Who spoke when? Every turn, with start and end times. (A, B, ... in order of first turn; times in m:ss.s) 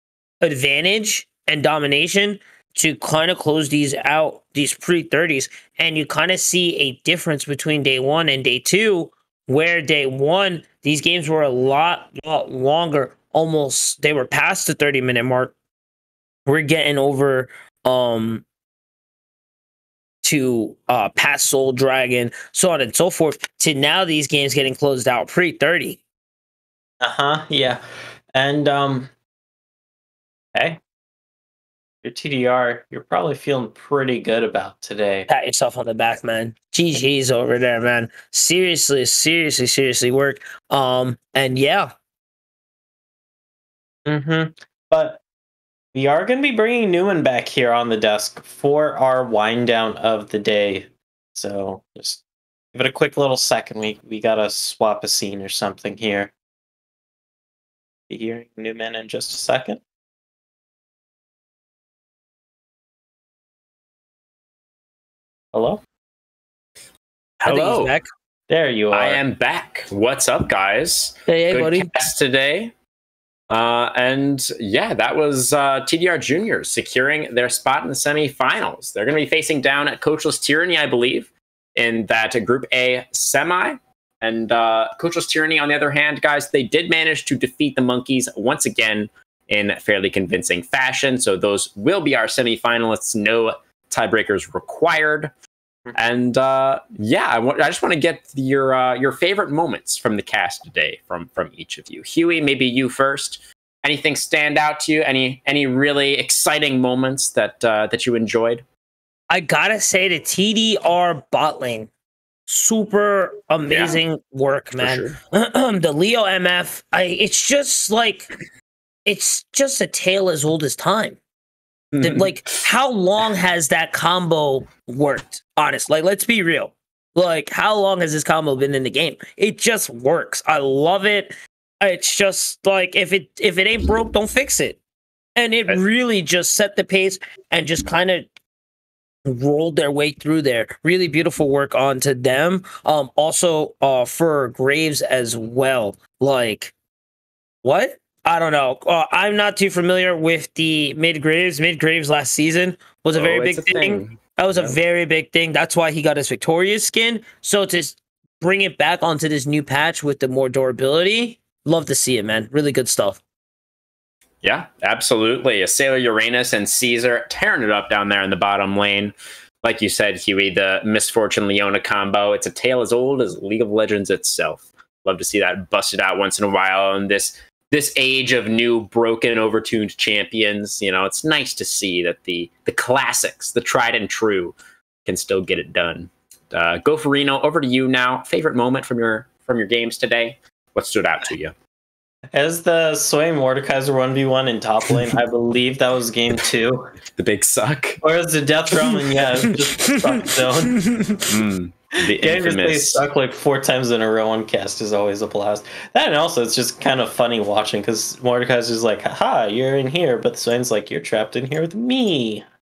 0:00.4-0:15.5 A
0:16.5-0:18.4 A
0:20.2-0:26.0 A
0:27.0-0:27.8 B
0:28.3-0:29.1 B
0:30.5-0:30.8 B
0:32.0-0:35.3 B
0:35.3-0:41.9 A
0:44.0-0:45.2 B
0:45.9-0:52.2 B
0:52.7-0:56.3 B
0:58.1-0:59.8 B
1:05.5-1:05.8 B
1:07.4-1:08.1 A
1:07.4-1:07.9 C
1:08.5-1:09.2 B
1:08.9-1:12.7 C
1:11.3-1:12.1 A
1:13.5-1:35.3 C
1:35.9-1:48.6 C
1:49.3-1:51.9 A
1:52.5-1:58.3 A
1:53.7-1:54.0 C
1:54.8-1:55.2 C
1:59.0-2:01.2 A
2:01.9-2:02.6 C
2:02.0-2:14.8 A
2:15.4-2:18.3 A
2:19.2-2:26.7 A
2:27.6-2:43.2 A
2:33.1-2:34.8 C
2:44.4-3:04.5 C
3:05.0-3:11.5 C
3:12.3-3:16.9 B
3:17.2-3:18.0 C
3:18.0-3:20.8 B
3:19.7-3:21.3 A
3:21.3-3:23.0 C
3:22.1-3:32.4 B